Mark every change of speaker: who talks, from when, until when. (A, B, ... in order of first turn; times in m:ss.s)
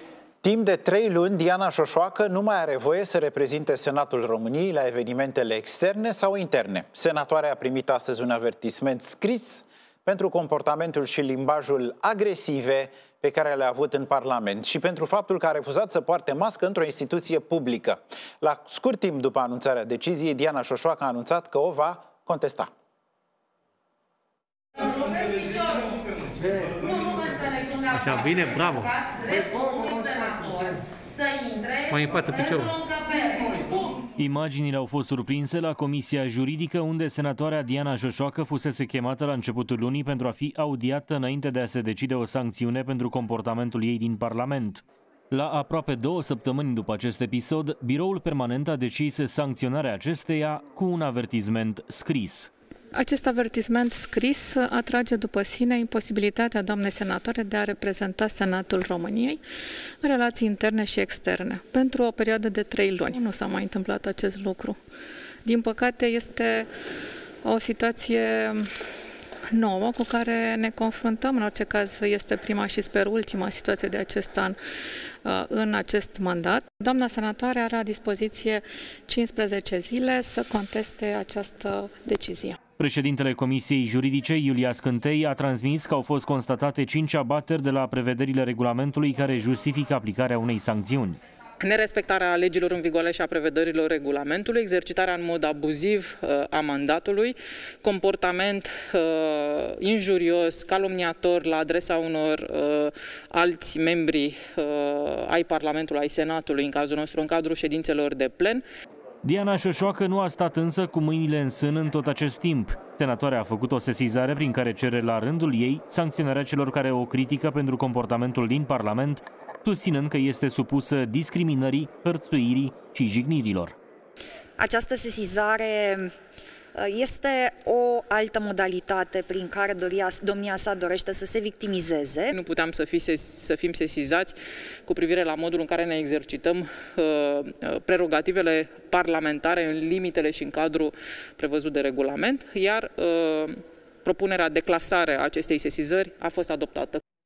0:00.4-0:22.7 A
0:27.9-0:29.0 B
0:31.9-0:32.8 B
0:34.2-0:52.5 C
0:52.9-0:59.4 D
1:00.0-1:04.8 D
1:05.4-1:06.7 D
1:07.4-1:08.7 D
1:09.5-1:14.6 D
1:15.2-1:22.6 D
1:22.8-1:31.2 C
1:31.6-1:48.6 E
1:49.2-2:03.8 C
2:04.6-2:06.1 F
2:06.8-2:12.3 F
2:12.3-2:27.0 E